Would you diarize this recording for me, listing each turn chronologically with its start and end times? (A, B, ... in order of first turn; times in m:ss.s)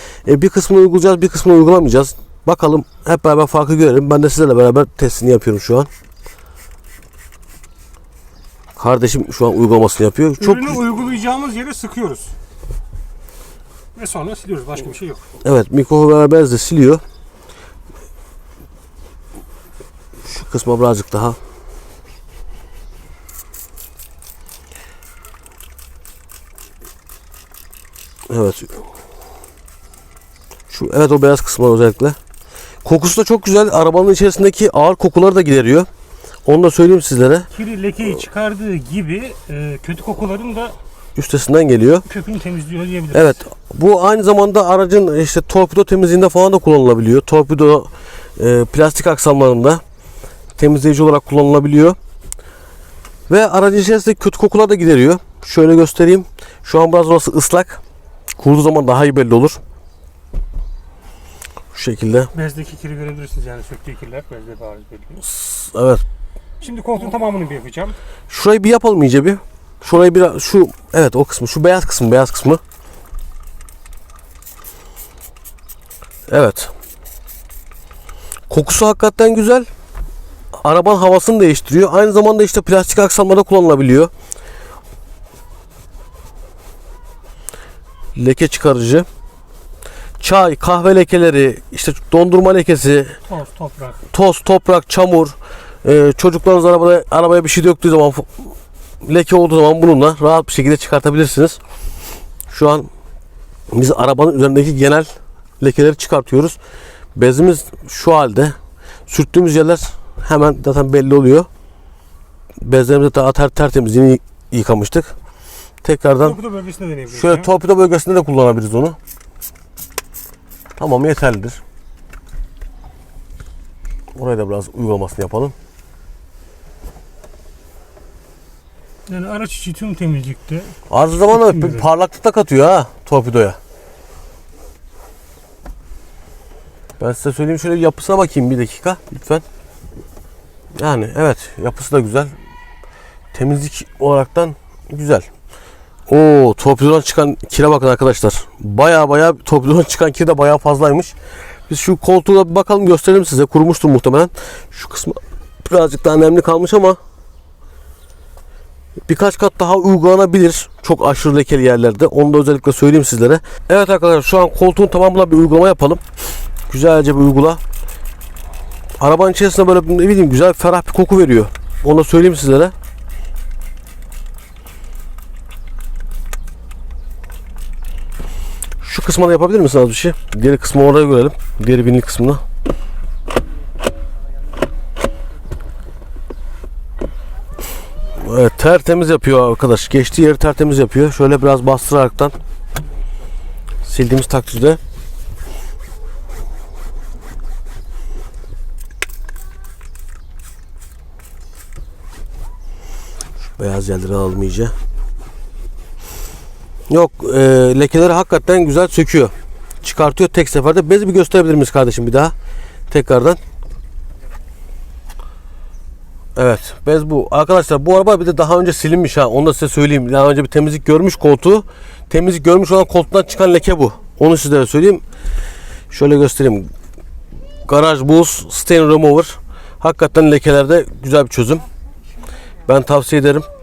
0:00.2-0:05.9 A
0:08.8-0:10.8 A
0:10.4-0:12.4 B
0:14.0-0:15.2 B
0:15.4-0:17.0 A
0:20.2-0:21.4 A
0:28.3-0:28.8 A
0:30.7-0:32.2 A
0:32.8-0:35.9 A
0:36.5-0:37.5 A
0:37.5-0:40.8 B
0:41.2-0:42.1 A
0:42.0-0:43.4 B
0:43.1-0:49.8 A
0:50.6-0:52.0 A
0:53.3-0:57.8 A
0:58.4-0:59.6 A
1:01.7-1:02.3 A
1:02.3-1:05.2 B
1:05.2-1:06.0 A
1:06.6-1:08.0 B
1:08.3-1:12.6 A
1:16.3-1:16.7 A
1:18.5-1:19.7 A
1:20.6-1:24.1 A
1:28.2-1:29.1 A
1:30.2-1:33.2 A
1:33.3-1:34.0 B
1:34.1-1:38.4 A
1:39.0-1:41.6 A
1:42.5-1:42.9 A
1:43.7-1:46.6 A
1:47.2-1:48.6 A
1:49.1-1:51.5 A
1:52.6-1:55.1 A
1:55.8-1:56.4 A
1:56.2-1:57.5 B
1:57.1-1:59.0 A
2:00.8-2:01.6 A
2:04.2-2:05.5 A
2:09.1-2:11.9 B
2:10.9-2:13.6 A
2:17.0-2:19.4 A
2:20.8-2:22.3 A
2:23.3-2:25.3 A
2:26.1-2:31.2 A
2:31.7-2:37.0 A
2:39.1-2:46.0 A
2:46.7-2:47.6 A
2:49.0-2:52.7 A
2:58.8-3:02.4 A
3:08.2-3:12.4 A
3:13.8-3:14.8 A
3:23.6-3:24.7 A
3:26.9-3:32.3 A
3:32.9-3:33.4 A
3:36.4-3:45.0 A
3:45.9-3:46.7 A
3:47.7-3:51.7 A
3:52.7-3:53.5 A